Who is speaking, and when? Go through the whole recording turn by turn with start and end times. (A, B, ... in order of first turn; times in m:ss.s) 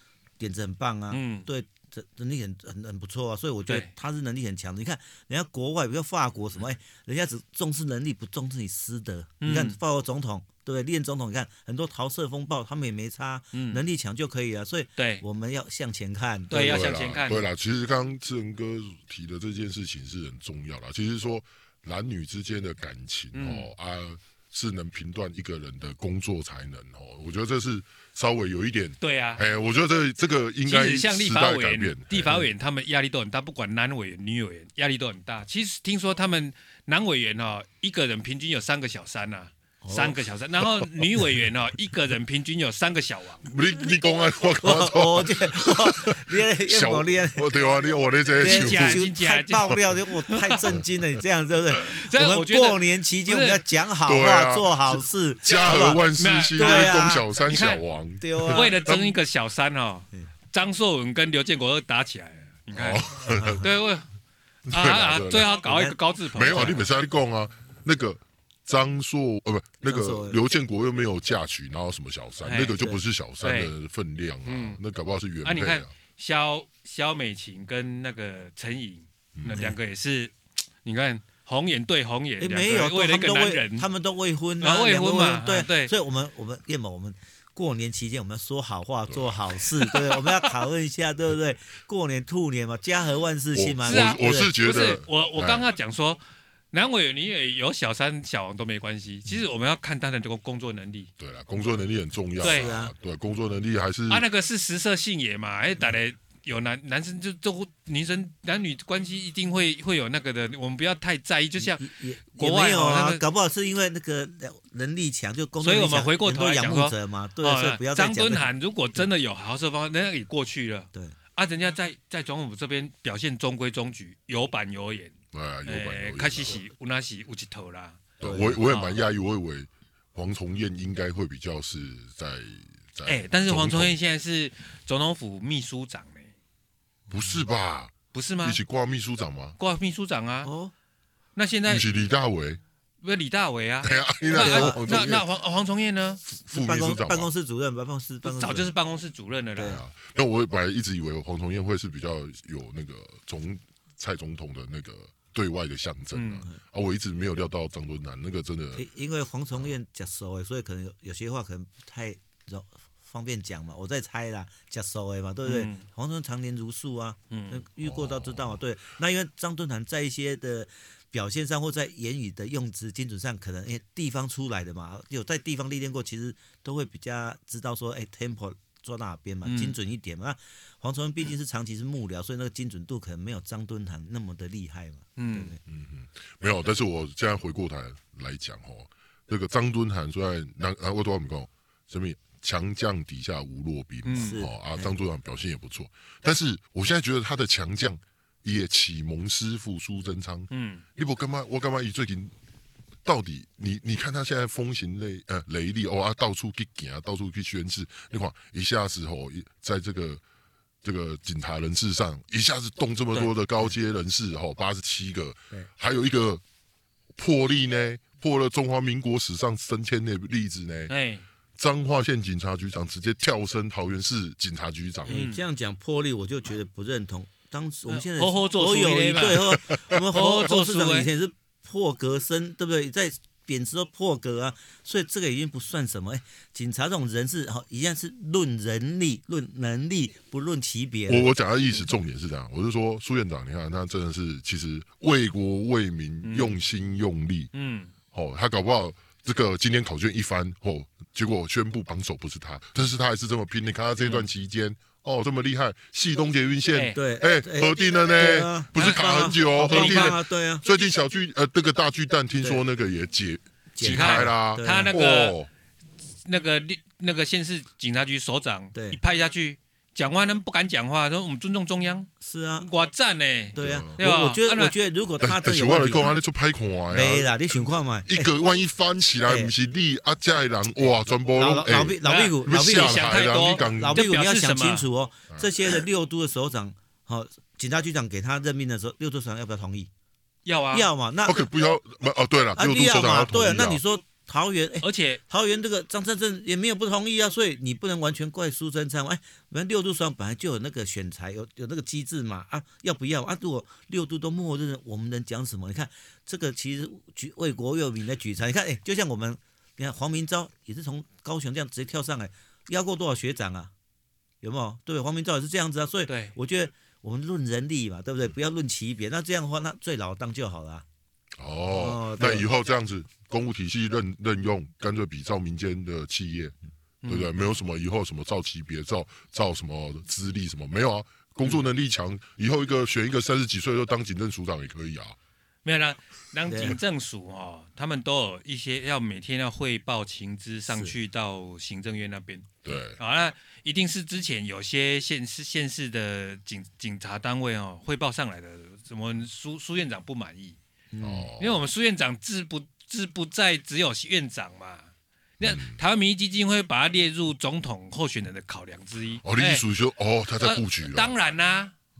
0:00.4-0:16.8 A
0:01.1-0:01.5 B
0:09.4-0:09.8 B
0:13.5-0:13.8 B
0:15.0-0:15.2 B
0:16.5-0:17.4 B
0:16.5-0:32.4 C
0:23.3-0:23.7 B
0:29.0-0:29.4 B
0:30.6-0:43.5 B
0:39.8-0:40.2 A
0:43.4-0:49.0 C
0:44.6-0:47.5 A
0:48.4-0:56.0 A
0:48.4-0:50.6 B
0:51.8-0:53.6 B
0:54.0-0:59.1 C
0:56.2-0:57.8 B
0:56.5-0:57.2 A
0:58.2-0:58.8 A
0:58.5-1:04.1 B
1:02.7-1:03.6 C
1:03.4-1:03.6 A
1:04.7-1:05.5 C
1:04.7-1:06.9 B
1:05.6-1:06.0 A
1:06.3-1:15.9 C
1:06.5-1:06.8 A
1:09.8-1:10.4 A
1:12.4-1:12.8 B
1:13.4-1:13.7 B
1:14.4-1:14.8 B
1:15.4-1:23.9 B
1:19.4-1:19.6 C
1:22.4-1:34.5 A
1:24.6-1:25.9 B
1:29.1-1:29.3 C
1:29.9-1:30.5 B
1:33.5-1:35.6 C
1:33.8-1:36.2 B
1:36.7-1:41.1 B
1:41.2-1:44.2 C
1:42.4-1:42.7 B
1:42.4-1:42.9 A
1:44.1-1:53.2 B
1:51.6-1:58.5 A
1:55.6-2:05.1 B
2:05.3-2:06.6 C
2:05.6-2:09.0 B
2:08.2-2:13.9 C
2:08.2-2:08.6 A
2:13.0-2:16.3 B
2:17.1-2:19.6 C
2:18.1-2:18.6 B
2:19.6-2:20.5 B
2:20.4-2:20.7 A
2:21.4-2:21.8 B
2:21.7-2:22.6 C
2:23.0-2:26.2 B
2:23.8-2:25.2 C
2:24.3-2:25.1 A
2:26.3-2:27.3 C
2:26.5-2:28.7 A
2:28.2-2:29.8 B
2:29.6-2:38.8 C
2:36.1-2:36.4 B
2:38.8-3:05.6 A
2:45.4-2:45.8 B
2:47.3-2:47.6 B
2:47.8-2:48.6 C
2:59.4-2:59.7 B
3:05.2-3:05.5 B
3:05.6-3:22.3 C
3:14.0-3:14.4 B
3:14.1-3:14.9 A
3:20.5-3:20.8 B
3:23.0-3:30.2 C
3:30.8-3:36.4 C
3:37.2-3:40.9 C
3:40.9-3:41.2 B
3:41.6-3:45.2 C
3:45.1-4:01.3 A
3:45.1-3:45.4 B
3:47.9-3:51.1 B
4:01.1-4:07.5 C
4:06.2-4:06.6 B
4:07.5-4:07.9 B
4:08.1-4:25.5 C
4:16.7-4:17.0 B
4:16.9-4:20.6 A
4:18.8-4:19.0 B
4:19.5-4:20.2 B
4:23.8-4:24.9 A
4:23.8-4:25.4 B
4:26.2-4:32.1 B
4:28.7-4:29.0 A
4:32.2-4:32.7 A
4:32.6-4:34.7 B
4:33.5-4:36.1 A
4:33.6-4:33.9 C
4:35.2-4:44.0 C
4:36.9-4:38.3 A
4:39.3-4:39.5 A
4:41.3-4:49.9 A
4:42.0-4:44.8 B
4:50.4-4:50.9 B
4:50.7-4:51.4 A
4:51.2-4:53.8 C
4:52.6-5:13.7 A
4:54.8-4:55.2 B
5:14.4-5:20.8 A
5:16.1-5:16.3 B
5:21.4-5:26.5 C
5:21.7-5:22.5 A
5:27.0-5:27.3 B
5:27.1-5:35.2 C
5:35.6-5:50.6 B
5:36.5-5:36.8 A
5:42.6-5:43.0 C
5:50.9-5:51.3 A
5:51.0-5:51.6 C
5:51.4-5:54.9 B
5:55.4-5:59.6 B
5:55.4-5:55.8 C
5:59.2-6:01.1 C
6:00.4-6:01.7 B